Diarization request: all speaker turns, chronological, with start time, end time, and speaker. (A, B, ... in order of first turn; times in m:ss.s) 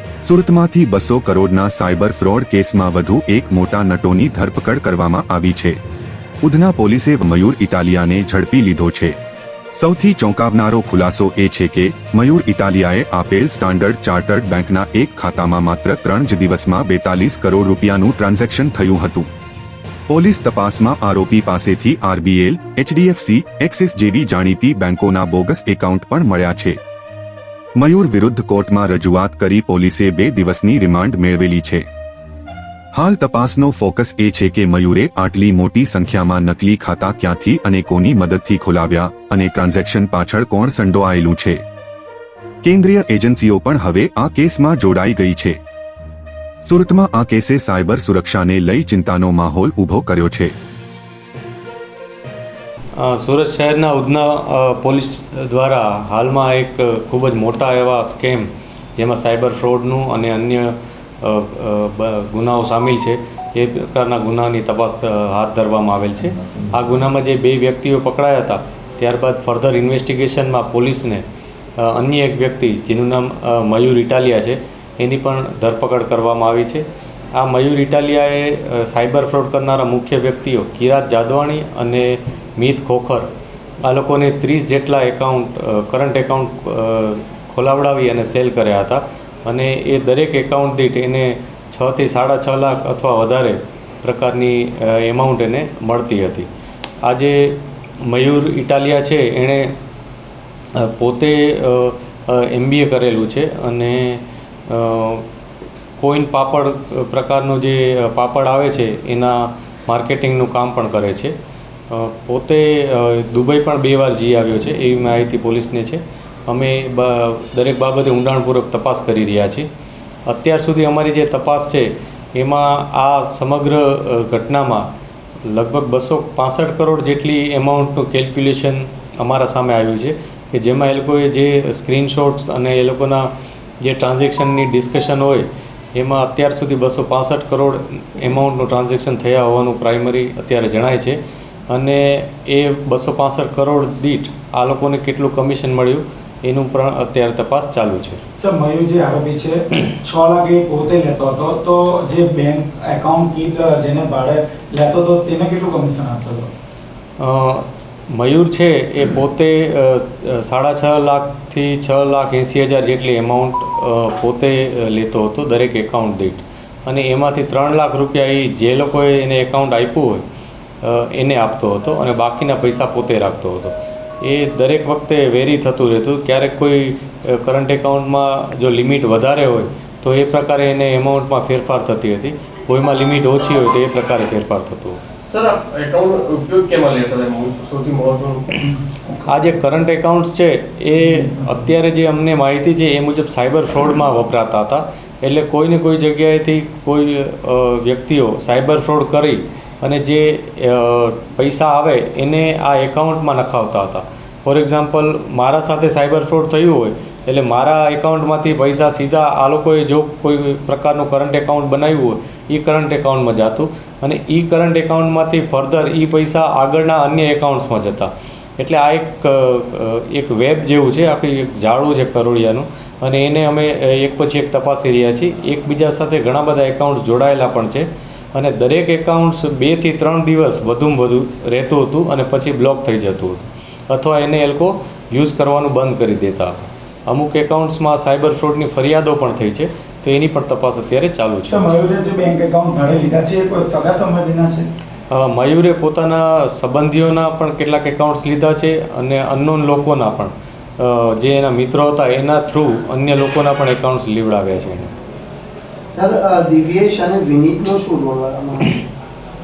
0:00.2-0:05.8 A
0:06.4-0:09.2 A
0:09.8-0:19.3 A
0:20.1-0:26.8 A
0:27.8-0:31.9 A
0:33.0-0:41.6 A
0:42.7-0:45.6 A
0:46.7-0:50.5 A
0:53.0-1:11.2 B
1:11.8-1:23.3 B
1:23.8-1:36.5 B
1:37.0-1:39.7 B
1:40.8-1:45.2 B
1:46.0-1:51.3 B
1:51.9-1:59.7 B
2:00.3-2:04.9 B
2:05.5-2:13.3 B
2:13.8-2:21.2 B
2:21.7-2:28.2 B
2:28.4-2:36.5 C
2:37.2-2:50.2 B
2:50.8-3:05.0 B
3:05.2-3:08.4 D
3:08.9-3:09.2 C
3:09.3-4:01.7 B
4:01.5-4:04.7 C
4:05.1-4:14.9 B
4:15.9-4:18.8 E